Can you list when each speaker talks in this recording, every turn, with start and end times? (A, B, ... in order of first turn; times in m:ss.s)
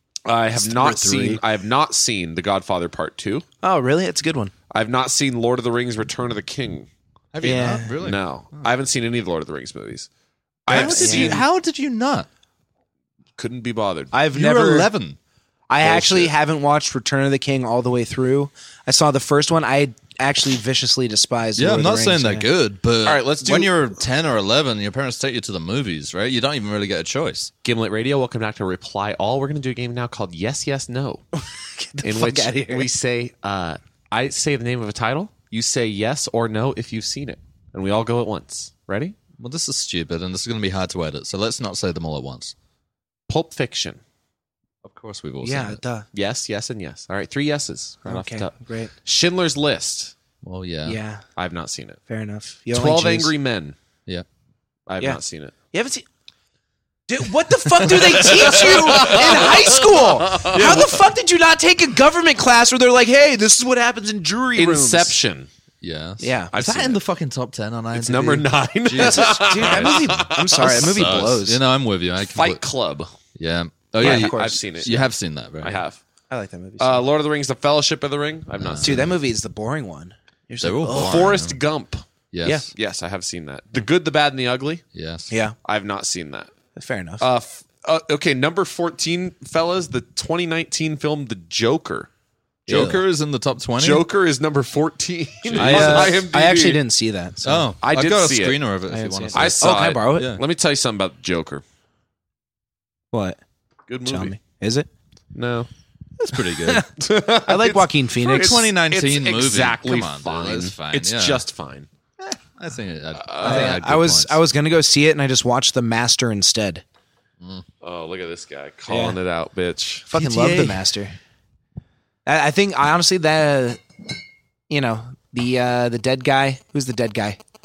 0:00.2-0:03.4 A
0:00.5-0:01.4 B
0:03.6-0:04.5 B
0:04.7-0:06.9 A
0:07.3-0:08.2 C
0:07.4-0:07.9 B
0:07.5-0:10.1 A
0:10.6-0:11.4 A
0:10.7-0:11.4 B
0:10.7-0:12.3 C
0:13.4-0:14.1 A
0:14.1-0:14.9 B
0:14.3-0:15.2 C
0:15.7-0:22.5 B
0:15.8-0:16.3 A
0:21.6-0:27.5 C
0:23.0-0:23.7 A
0:27.6-0:31.2 A
0:31.6-0:32.9 B
0:32.0-0:39.2 A
0:39.4-0:42.5 C
0:43.3-0:44.0 A
0:44.8-0:45.8 C
0:45.4-0:46.0 B
0:46.1-0:50.1 A
0:48.0-0:48.9 B
0:50.4-0:51.0 C
0:50.8-0:51.2 B
0:51.4-0:52.0 A
0:52.1-0:53.3 B
0:52.7-0:53.8 A
0:54.9-0:55.5 A
0:55.7-0:56.0 B
0:57.1-1:05.2 B
0:57.8-0:59.5 C
0:58.3-1:00.9 A
1:00.4-1:00.8 C
1:04.6-1:05.5 A
1:05.8-1:12.6 C
1:06.2-1:06.5 B
1:06.5-1:07.0 A
1:07.9-1:10.9 A
1:08.9-1:11.6 B
1:12.3-1:13.1 A
1:13.3-1:15.8 C
1:14.0-1:14.6 B
1:14.0-1:15.1 A
1:15.6-1:16.0 A
1:16.3-1:17.0 B
1:16.8-1:19.2 A
1:18.6-1:19.1 C
1:18.8-1:21.3 B
1:20.6-1:21.6 C
1:20.9-1:22.0 A
1:22.3-1:22.7 C
1:22.7-1:24.8 A
1:24.9-1:25.3 C
1:25.3-1:25.6 B
1:25.6-1:26.5 A
1:26.8-1:27.2 B
1:27.2-1:32.1 A
1:32.7-1:34.0 C
1:32.7-1:33.0 A
1:33.8-1:36.8 A
1:35.5-1:37.7 B
1:35.5-1:36.2 C
1:37.4-1:40.4 C
1:37.8-1:38.6 A
1:38.9-1:40.3 B
1:39.3-1:41.6 A
1:43.1-1:43.4 B
1:43.9-1:44.4 A
1:44.0-1:44.9 B
1:45.3-1:45.7 A
1:46.2-1:46.8 C
1:46.6-1:46.9 B
1:47.0-1:51.9 A
1:47.4-1:48.6 B
1:48.2-1:51.4 C
1:52.2-1:54.4 C
1:53.2-1:53.8 A
1:53.4-1:56.8 B
1:57.8-2:00.1 A
1:58.9-1:59.2 B
2:00.1-2:01.1 B
2:00.1-2:00.8 C
2:02.2-2:03.8 B
2:04.7-2:07.4 B